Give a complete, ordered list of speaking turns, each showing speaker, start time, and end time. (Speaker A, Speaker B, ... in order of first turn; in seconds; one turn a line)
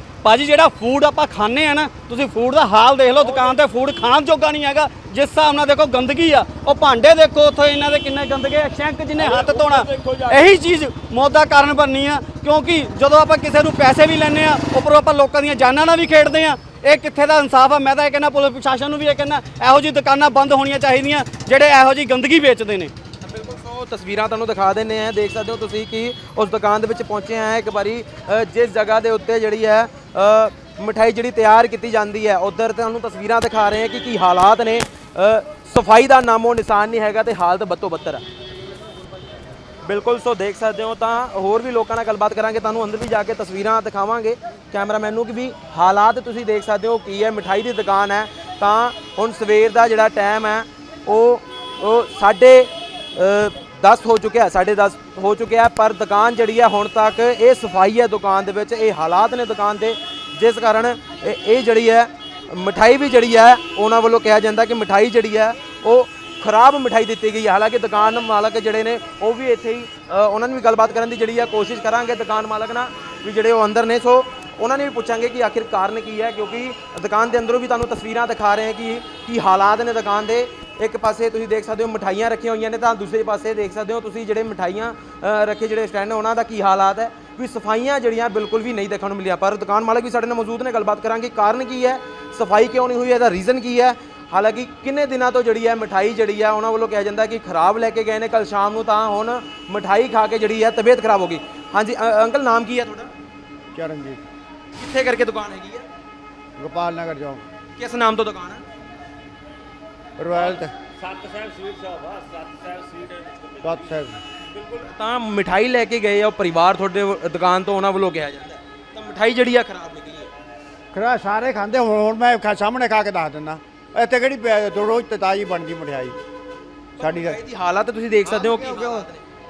Speaker A: 0.2-22.9
Speaker B: 9.2-10.4
Speaker B: 23.2-38.2
Speaker B: 39.8-103.1
Speaker C: 103.7-104.2
Speaker B: 104.8-105.8
Speaker C: 106.6-107.5
Speaker B: 107.8-108.6
Speaker C: 110.2-110.7
Speaker D: 110.3-114.0
Speaker C: 113.6-114.2
Speaker B: 114.5-120.3
Speaker C: 120.9-126.2
Speaker B: 127.0-129.2
Speaker C: 127.0-127.4
Speaker C: 128.3-129.0